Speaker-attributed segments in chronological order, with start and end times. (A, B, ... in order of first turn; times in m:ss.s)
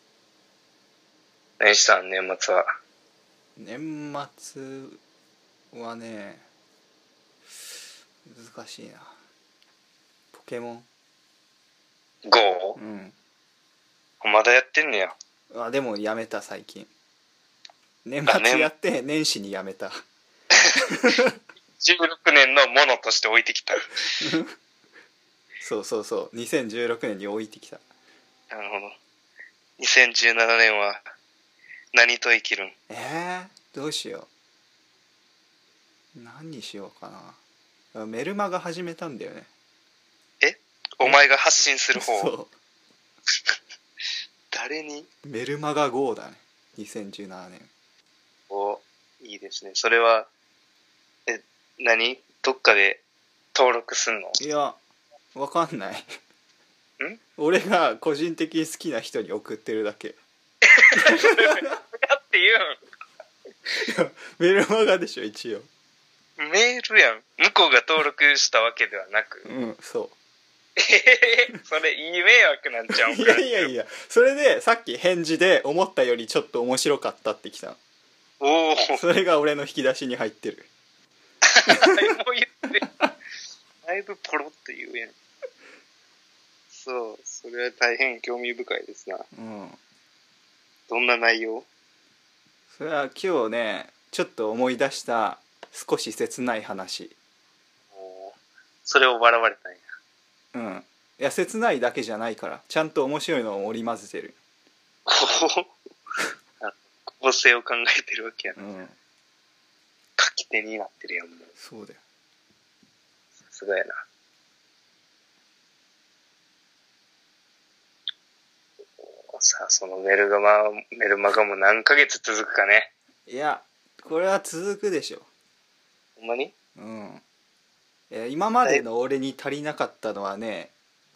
0:01.6-0:02.7 A
0:03.6-0:05.0 B
0:05.7-0:06.4 B
0:08.2-0:09.2 B
0:10.3-0:10.9 B
0:12.3-0:12.8 A
0:12.8-0:13.2 B
0:14.2-0:15.2 A
0:15.5-0:16.9 B
0:18.0-0:20.0 B
0:18.3-0:18.7 A
0:20.8-0:21.3 B
0:21.8-0:24.0 A
0:24.2-0:24.5 B
0:25.6-0:27.8 B
0:28.5-0:29.0 A
0:29.8-0:31.1 A
0:31.9-0:32.8 A
0:32.9-0:34.3 B
0:36.2-0:37.4 B
0:37.9-0:39.5 B
0:40.4-0:42.3 A
0:42.0-0:42.5 B
0:44.5-0:45.1 A
0:45.2-0:47.7 B
0:48.5-0:50.3 A
0:51.3-0:53.0 A
0:53.6-0:54.4 A
0:54.4-0:54.8 B
0:55.4-0:56.1 B
0:57.4-1:00.2 B
1:00.7-1:02.8 A
1:03.7-1:05.7 B
1:06.4-1:09.5 A
1:09.4-1:10.1 B
1:10.8-1:13.7 A
1:13.1-1:17.8 B
1:18.4-1:19.0 A
1:19.0-1:20.7 B
1:21.5-1:22.8 A
1:23.8-1:25.2 A
1:26.7-1:29.3 A
1:29.3-1:29.8 B
1:30.9-1:31.7 A
1:32.7-1:37.2 B
1:37.9-1:39.9 A
1:40.5-1:44.4 B
1:45.1-1:45.7 A
1:46.6-1:48.6 A
1:48.6-1:49.0 B
1:50.2-1:51.5 A
1:51.6-1:52.0 B
1:53.5-1:54.0 A
1:59.3-2:02.9 A
2:03.3-2:05.3 B
2:06.2-2:06.5 A
2:06.8-2:07.2 B
2:08.1-2:10.7 B